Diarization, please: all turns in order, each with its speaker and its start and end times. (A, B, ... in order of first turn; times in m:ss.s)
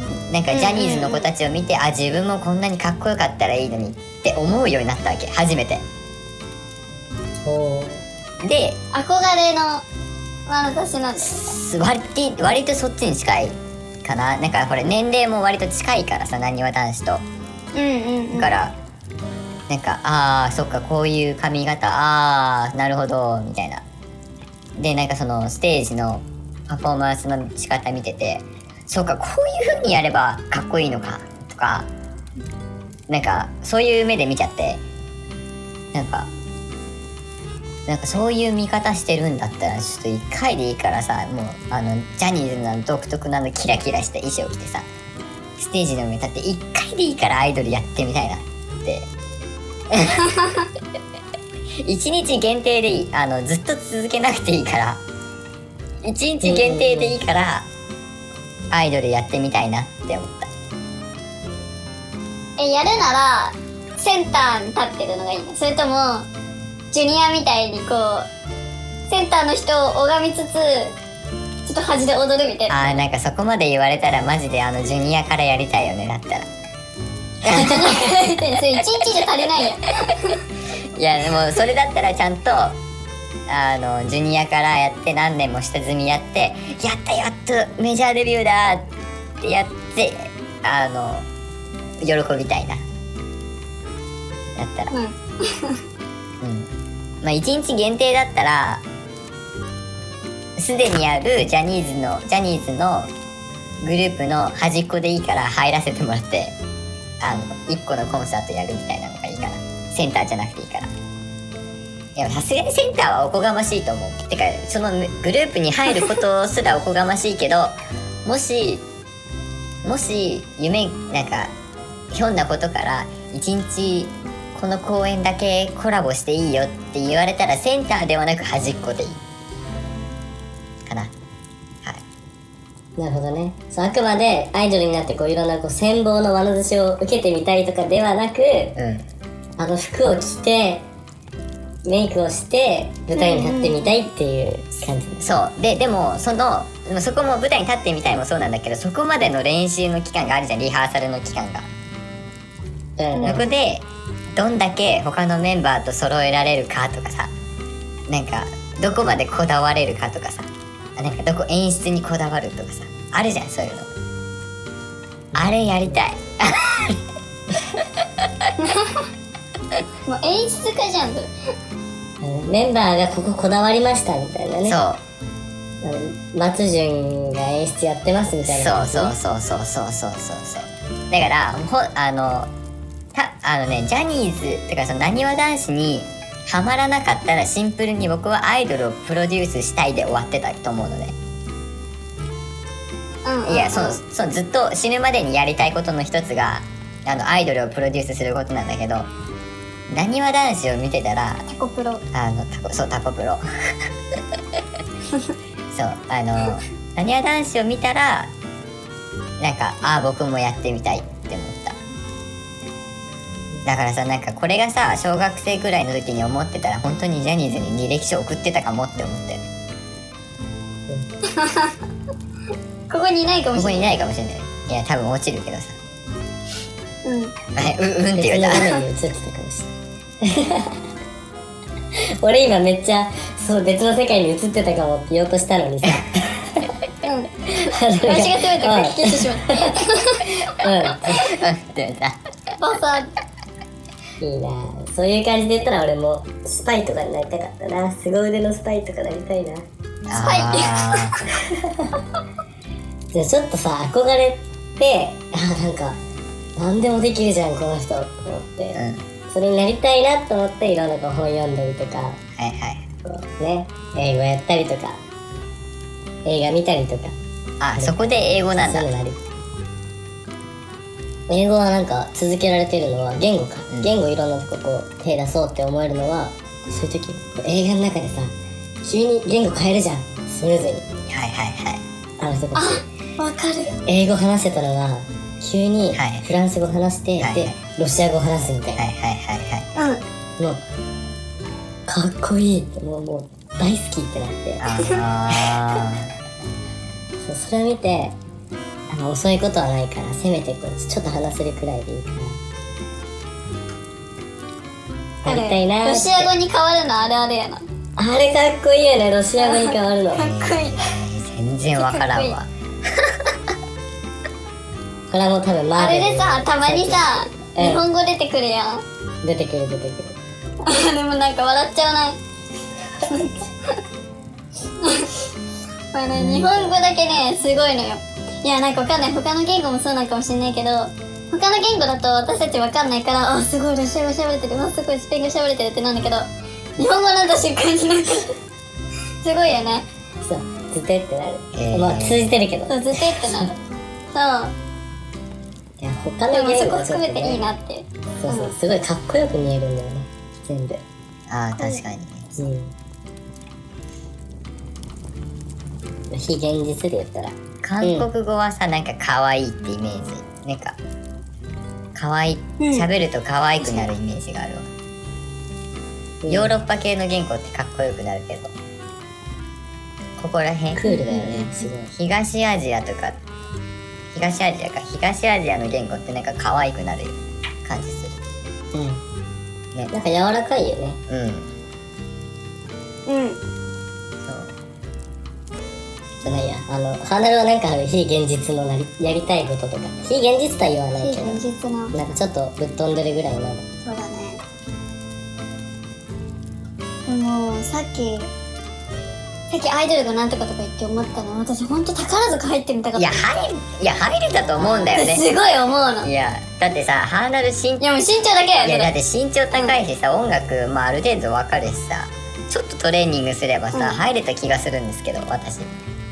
0:00.3-0:05.8 A
0:00.5-0:01.3 B
0:07.4-0:08.0 C
0:08.4-0:08.8 A
0:08.9-0:09.8 B
0:10.5-0:11.5 B
0:11.2-0:17.2 A
0:17.7-0:18.6 B
0:18.3-0:18.7 A
0:19.7-0:23.8 A
0:24.8-0:31.9 A
0:33.1-0:34.8 A
0:35.9-0:36.3 A
0:37.9-0:44.8 A
0:45.6-0:49.1 A
0:49.9-0:50.3 A
0:51.8-0:55.0 A
0:56.0-0:57.7 A
0:56.4-0:57.2 C
0:58.7-1:00.5 A
1:02.6-1:06.3 B
1:06.9-1:08.3 B
1:09.1-1:10.9 B
1:11.6-1:13.0 B
1:12.7-1:16.5 A
1:17.4-1:18.1 A
1:17.5-1:20.4 B
1:21.0-1:22.8 A
1:23.5-1:28.9 A
1:29.4-1:31.3 A
1:32.0-1:32.8 A
1:34.6-1:34.9 A
1:34.9-1:35.8 B
1:36.4-1:36.7 A
1:37.2-1:38.8 A
1:40.6-1:43.1 A
1:43.8-1:46.5 A
1:47.2-1:50.9 A
1:52.2-1:57.7 A
1:58.2-1:58.8 A
1:59.8-2:01.5 A
2:02.1-2:09.2 A
2:10.8-2:11.1 A
2:13.0-2:18.8 C
2:18.8-2:19.0 A
2:19.6-2:20.8 C
2:21.8-2:25.4 C
2:23.2-2:23.9 B
2:25.2-2:31.7 A
2:33.0-2:33.4 C
2:33.2-2:33.4 B
2:33.2-2:37.3 A
2:38.1-2:43.9 A
2:45.3-2:46.0 C
2:45.4-2:47.0 A
2:47.7-2:48.5 A
2:48.6-2:49.0 B
2:50.1-2:51.3 B
2:52.2-2:54.8 C
2:54.6-2:55.0 A
2:55.8-2:59.1 C
2:58.5-3:02.5 A
3:03.1-3:11.2 A
3:13.2-3:14.0 B
3:13.4-3:19.1 A
3:19.9-3:21.5 A
3:21.5-3:22.0 B
3:22.1-3:23.9 A
3:25.7-3:28.3 A
3:29.4-3:31.8 A
3:33.6-3:39.5 A
3:41.3-3:41.7 B
3:42.9-3:43.9 B
3:43.5-3:45.8 A
3:47.0-3:47.3 B
3:47.6-3:48.6 A
3:48.1-3:50.9 C
3:51.9-3:56.7 C
3:57.0-3:57.3 B
3:57.5-4:01.3 C
3:58.0-4:00.2 B
4:01.2-4:02.2 A
4:02.6-4:03.1 B
4:04.2-4:09.6 C
4:10.1-4:11.2 A
4:10.2-4:11.3 B
4:11.5-4:12.0 C
4:13.1-4:16.0 C
4:16.6-4:22.2 C
4:18.7-4:19.0 A
4:22.4-4:22.9 A
4:23.0-4:25.0 C
4:26.2-4:27.2 C
4:27.6-4:28.9 A
4:27.8-4:29.2 C
4:31.3-4:40.8 C
4:41.1-4:41.8 A
4:42.2-4:42.8 C
4:42.5-4:43.8 B
4:43.8-4:48.8 C
4:45.9-4:46.2 A
4:47.2-4:47.6 A
4:48.8-4:49.7 A
4:49.8-4:50.0 B
4:51.9-4:54.6 C
4:54.6-4:56.1 A
4:57.2-4:58.2 C
4:58.9-5:02.4 C
5:05.2-5:06.3 C
5:05.2-5:07.6 B
5:08.0-5:10.3 C
5:09.4-5:10.9 B
5:10.2-5:13.4 A
5:11.8-5:12.3 B
5:15.1-5:17.8 C
5:15.8-5:18.8 B
5:19.2-5:20.2 C
5:20.6-5:22.2 B
5:23.0-5:23.8 B
5:24.8-5:25.1 B
5:25.9-5:36.3 B
5:26.2-5:26.7 C
5:36.8-5:38.3 B
5:39.2-5:39.8 B
5:40.2-5:43.5 C
5:41.5-5:42.2 A
5:42.7-5:43.5 B
5:44.1-5:44.5 B
5:45.8-5:47.4 C
5:46.3-5:48.5 B
5:48.2-5:50.8 C
5:51.3-5:52.4 A
5:51.6-5:51.8 B
5:52.4-5:52.7 C
5:56.1-5:58.1 C
5:57.6-6:00.8 A
6:01.9-6:04.6 A
6:02.6-6:02.9 B
6:03.6-6:03.9 B
6:06.2-6:06.5 C
6:06.3-6:08.5 A
6:10.2-6:13.2 A
6:10.8-6:11.9 C
6:14.1-6:18.2 A
6:18.7-6:19.0 C
6:19.9-6:21.0 C
6:21.1-6:21.5 A
6:23.1-6:23.4 B
6:24.2-6:24.5 A
6:26.2-6:33.7 C
6:31.0-6:31.9 B
6:33.8-6:34.4 B
6:37.1-6:38.3 B
6:39.5-6:43.5 B
6:43.0-6:45.2 A
6:44.7-6:46.1 B
6:46.0-6:47.8 A
6:47.8-6:48.9 B
6:48.6-6:55.7 A
6:53.7-6:54.0 B